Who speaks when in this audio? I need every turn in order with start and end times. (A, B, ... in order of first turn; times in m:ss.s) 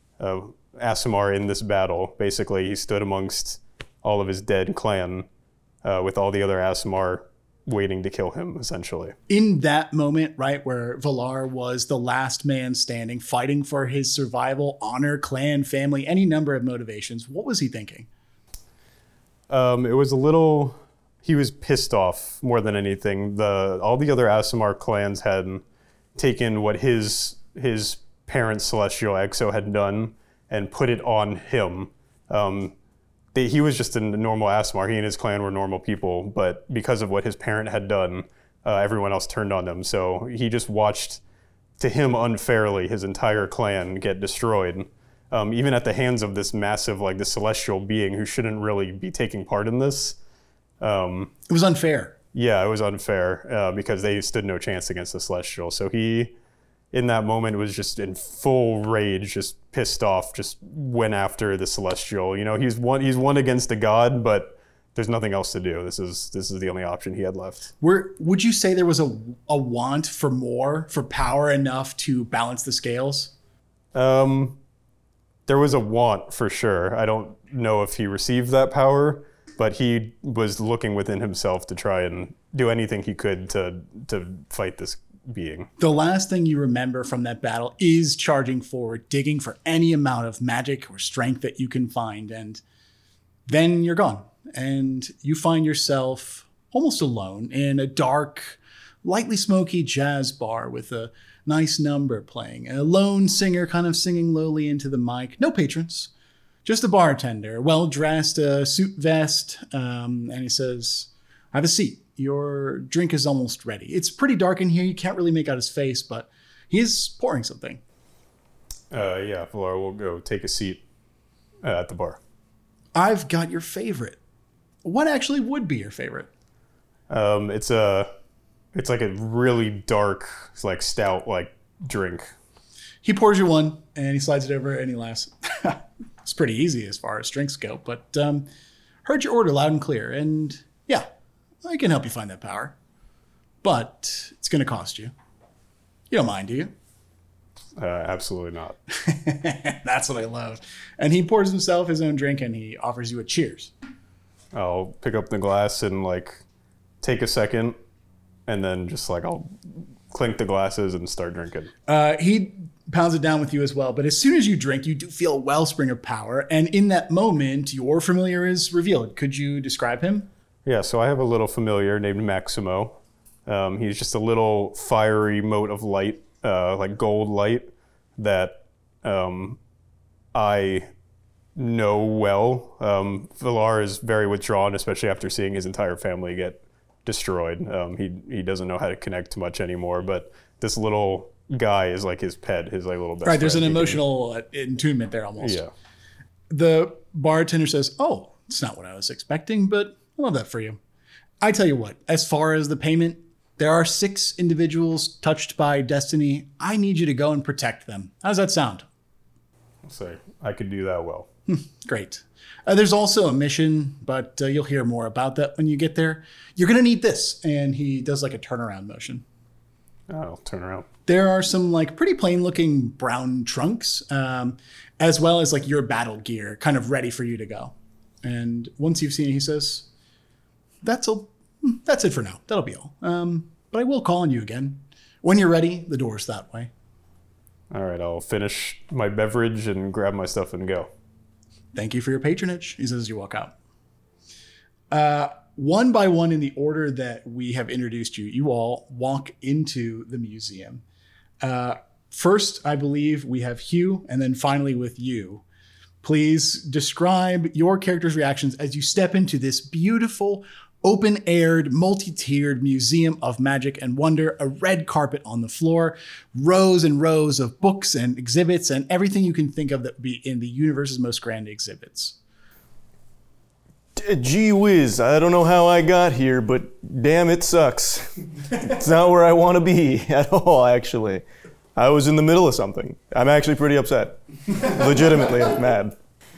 0:00.2-0:05.3 A
0:05.8-0:09.1 A
0:09.3-0:18.1 B
0:19.5-0:25.6 A
0:26.2-0:32.7 A
0:33.3-0:41.2 A
0:41.8-0:50.2 A
0:50.8-0:51.3 A
0:51.5-0:52.1 B
0:52.3-0:56.3 A
0:56.9-1:07.7 A
1:07.8-1:13.3 B
1:13.9-1:14.6 A
1:15.5-1:25.7 A
1:25.8-1:32.6 B
1:33.5-1:46.1 B
1:46.6-1:57.8 B
1:58.9-2:00.8 A
2:01.6-2:02.2 A
2:02.9-2:04.2 B
2:04.8-2:06.3 B
2:07.1-2:08.1 A
2:08.7-2:12.3 A
2:13.0-2:18.4 B
2:19.0-2:21.0 B
2:21.6-2:22.7 B
2:23.6-2:25.1 B
2:26.1-2:26.7 B
2:27.8-2:28.8 A
2:29.0-2:33.7 B
2:34.5-2:36.4 A
2:37.0-2:37.8 A
2:38.5-2:39.5 A
2:40.1-2:41.7 A
2:41.9-2:50.3 B
2:50.6-2:59.6 A
3:00.3-3:00.9 A
3:01.6-3:14.0 A
3:13.2-3:15.6 B
3:15.4-3:15.7 A
3:16.5-3:20.8 B
3:21.4-3:28.8 B
3:29.8-3:31.3 A
3:31.5-3:39.2 B
3:40.1-3:40.9 A
3:41.1-3:49.8 B
3:50.8-3:56.7 B
3:57.7-4:00.9 A
4:01.7-4:03.5 B
4:04.9-4:10.8 B
4:11.4-4:15.4 B
4:16.0-4:32.2 B
4:34.0-4:41.2 C
4:41.8-4:46.0 C